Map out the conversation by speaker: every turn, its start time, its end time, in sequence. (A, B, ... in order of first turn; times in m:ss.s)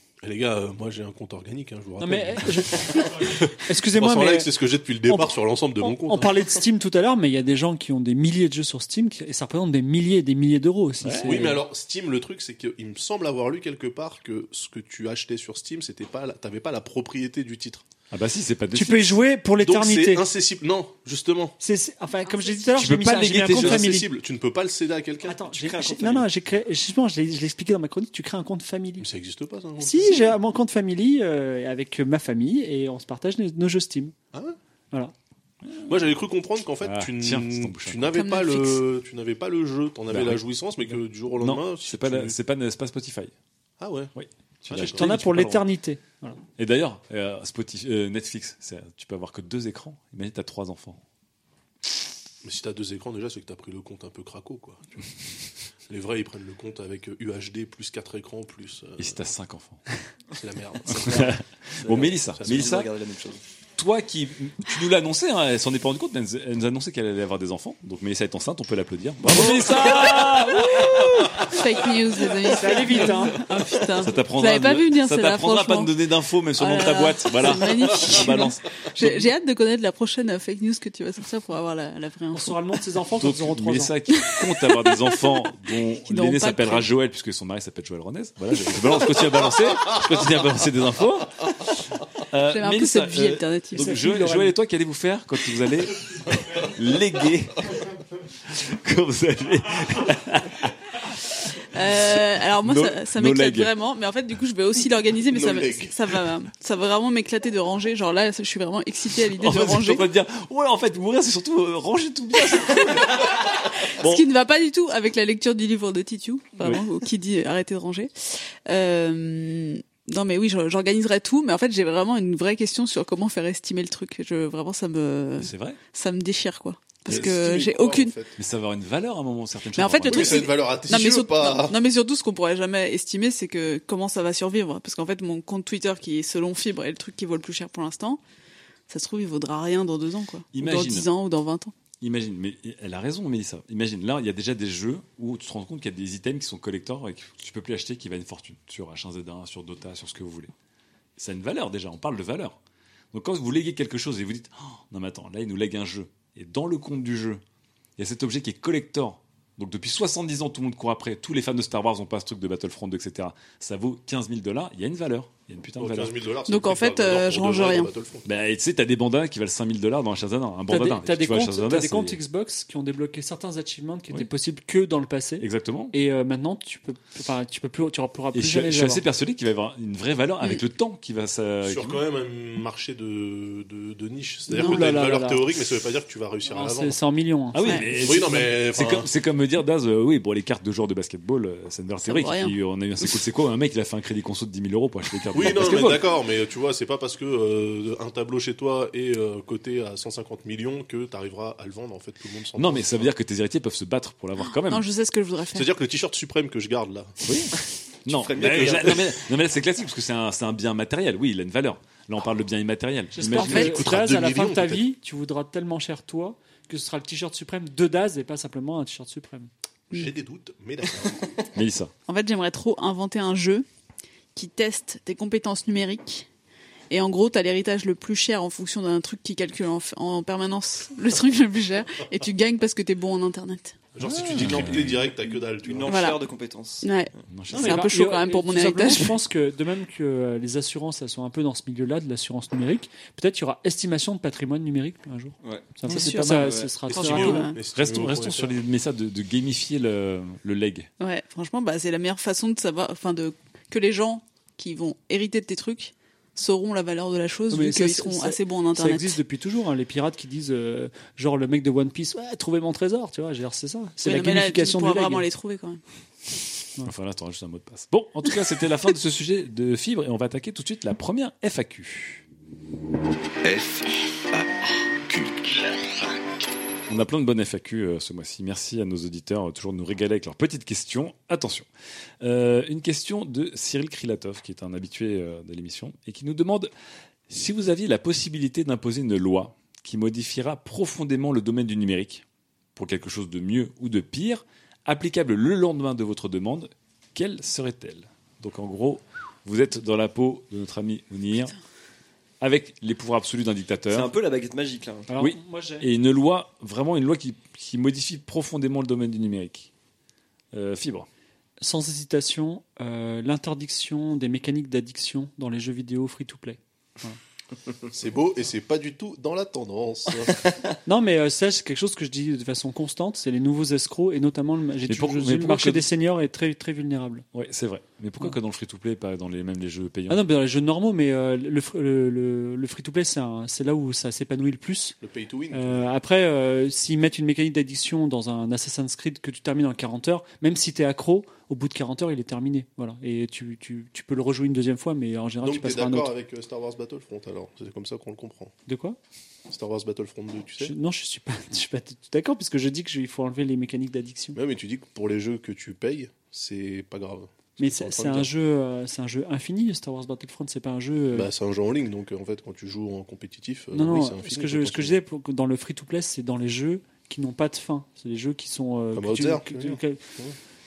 0:00.2-0:06.4 A
0:02.0-0:04.5 B
0:05.1-0:11.6 B
0:11.0-0:11.5 C
0:11.2-0:17.8 A
0:18.1-0:19.2 C
0:18.7-0:20.3 B
0:19.6-0:21.6 A
0:21.6-0:24.1 B
0:22.3-0:22.7 D
0:22.8-0:23.9 C
0:23.3-0:25.5 A
0:25.2-0:29.1 B
0:25.5-0:26.3 E
0:29.0-0:30.4 A
0:29.8-0:34.1 B
0:35.6-0:36.0 C
0:35.9-0:42.4 A
0:36.8-0:38.2 C
0:38.1-0:38.8 D
0:40.1-0:40.4 C
0:41.4-0:43.3 C
0:43.8-0:44.1 A
0:44.2-0:45.6 C
0:44.7-0:45.1 A
0:44.8-0:46.4 B
0:46.6-0:51.0 C
0:52.4-0:55.0 A
0:55.9-0:59.2 A
0:59.0-0:59.8 C
1:00.4-1:01.4 A
1:00.9-1:02.9 C
1:01.8-1:03.4 E
1:01.9-1:02.8 A
1:03.8-1:11.3 C
1:10.6-1:15.9 D
1:12.5-1:13.4 B
1:14.0-1:19.3 C
1:16.6-1:22.6 D
1:22.3-1:23.9 B
1:23.2-1:37.9 C
1:24.2-1:25.1 D
1:26.1-1:26.9 D
1:32.5-1:34.0 D
1:33.8-1:34.5 B
1:38.4-1:40.8 C
1:41.7-1:50.1 D
1:42.0-1:43.7 C
1:45.3-1:45.9 A
1:49.2-1:54.2 C
1:53.6-2:08.1 D
2:05.4-2:05.8 C
2:07.1-2:08.3 A
2:08.4-2:10.5 C
2:09.8-2:18.2 D
2:10.1-2:11.8 A
2:18.9-2:21.7 D
2:20.5-2:21.1 C
2:22.0-2:30.5 C
2:31.2-2:32.6 C
2:33.1-2:37.4 C
2:38.0-2:46.1 C
2:45.8-2:48.3 A
2:46.5-2:47.9 D
2:48.3-2:52.2 C
2:50.7-2:59.0 B
2:55.4-2:56.0 C
2:58.3-3:02.0 C
3:01.6-3:07.0 A
3:04.5-3:05.4 B
3:04.6-3:04.8 D
3:06.5-3:08.5 B
3:07.5-3:16.1 C
3:08.0-3:09.1 A
3:12.0-3:13.1 D
3:15.3-3:23.1 A
3:22.6-3:24.9 C
3:24.7-3:25.7 D
3:25.6-3:27.2 A
3:27.2-3:27.5 C
3:28.0-3:34.0 C
3:28.1-3:29.0 E
3:28.4-3:29.1 A
3:33.2-3:39.5 B
3:33.4-3:34.9 A
3:33.5-3:33.8 D
3:39.9-3:41.3 A
3:41.6-3:41.9 C
3:42.1-3:43.6 D
3:44.4-3:46.3 D
3:46.9-3:53.8 D
3:54.0-3:56.0 A
3:54.1-3:55.1 C
3:55.6-3:57.0 E
3:55.9-3:56.2 D
3:56.8-3:59.2 D
3:57.3-3:57.9 C
3:57.5-4:07.5 B
4:05.4-4:06.7 E
4:05.9-4:07.6 D
4:06.0-4:06.5 C
4:06.9-4:08.5 A
4:07.7-4:10.9 C
4:11.0-4:19.2 D
4:17.5-4:25.2 B
4:24.0-4:25.8 D
4:26.8-4:32.2 C
4:33.4-4:36.4 F
4:36.9-4:41.7 C
4:42.2-4:46.7 C
4:47.3-4:52.2 C
4:52.8-5:01.6 C
5:02.4-5:04.1 C
5:03.9-5:05.1 E
5:05.1-5:05.9 B
5:05.2-5:09.7 C
5:10.5-5:11.1 C
5:11.6-5:17.2 B
5:17.9-5:20.4 A
5:20.9-5:27.2 B
5:24.9-5:25.9 C
5:27.3-5:30.3 C
5:30.1-5:35.0 B
5:35.0-5:35.9 A
5:35.5-5:46.1 B
5:45.4-5:48.5 A
5:48.7-5:49.0 B
5:49.5-5:50.7 A
5:50.6-5:54.4 B
5:54.4-5:58.3 A
5:57.6-6:01.3 B
6:01.1-6:05.0 A
6:03.7-6:10.0 B
6:08.9-6:10.4 A